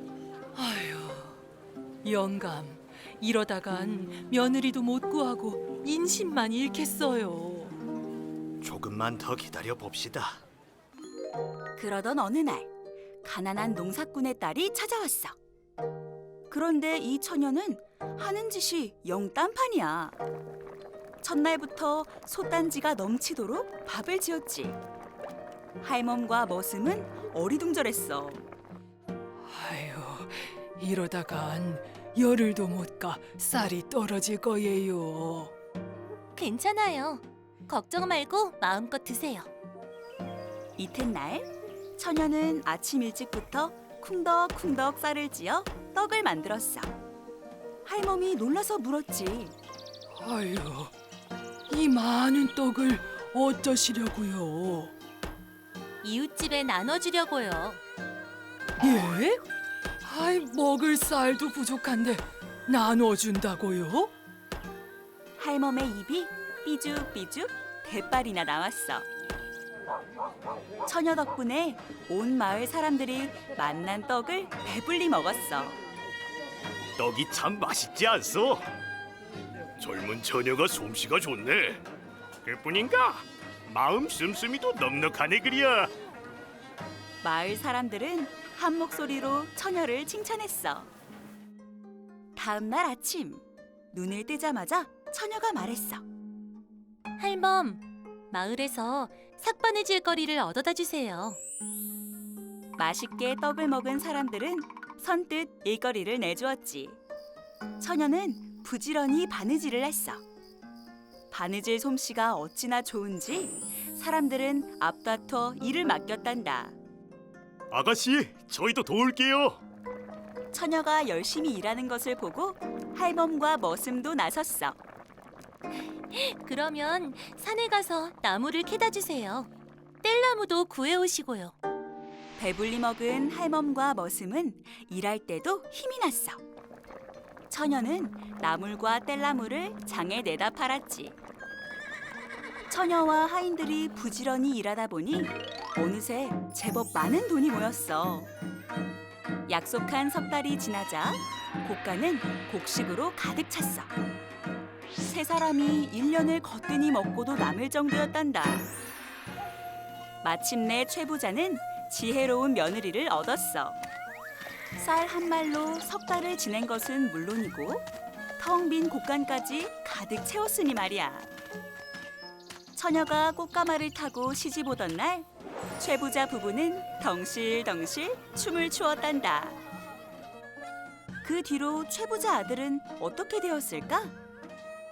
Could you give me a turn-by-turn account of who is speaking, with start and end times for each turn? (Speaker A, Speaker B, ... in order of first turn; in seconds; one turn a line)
Speaker A: 0.5-1.4
Speaker A: 2.0-7.8
Speaker B: 8.6-10.4
Speaker C: 11.8-12.7
Speaker C: 13.2-15.3
Speaker C: 16.5-20.2
Speaker C: 21.2-24.8
Speaker C: 25.8-28.4
Speaker A: 29.4-35.5
Speaker D: 36.4-39.5
Speaker C: 40.8-46.9
Speaker C: 47.8-49.5
Speaker A: 50.2-50.9
Speaker A: 51.7-54.9
Speaker D: 56.0-57.8
Speaker A: 58.8-59.4
Speaker A: 60.0-64.1
Speaker C: 65.4-69.1
Speaker C: 70.8-75.8
Speaker B: 77.0-78.6
Speaker B: 79.8-81.8
Speaker B: 82.4-85.9
Speaker C: 87.2-90.9
Speaker C: 92.3-96.0
Speaker D: 97.2-101.4
Speaker C: 102.8-107.0
Speaker C: 107.8-110.2
Speaker C: 111.3-116.8
Speaker B: 117.7-119.6
Speaker C: 120.5-124.8
Speaker D: 126.1-129.5
Speaker D: 130.0-131.5
Speaker C: 132.4-136.4
Speaker C: 137.5-141.2
Speaker C: 142.7-148.3
Speaker C: 149.5-153.9
Speaker C: 155.0-158.7
Speaker C: 160.2-163.8
Speaker C: 164.8-167.9
Speaker C: 168.4-171.3
Speaker C: 172.7-179.6
Speaker C: 181.2-184.1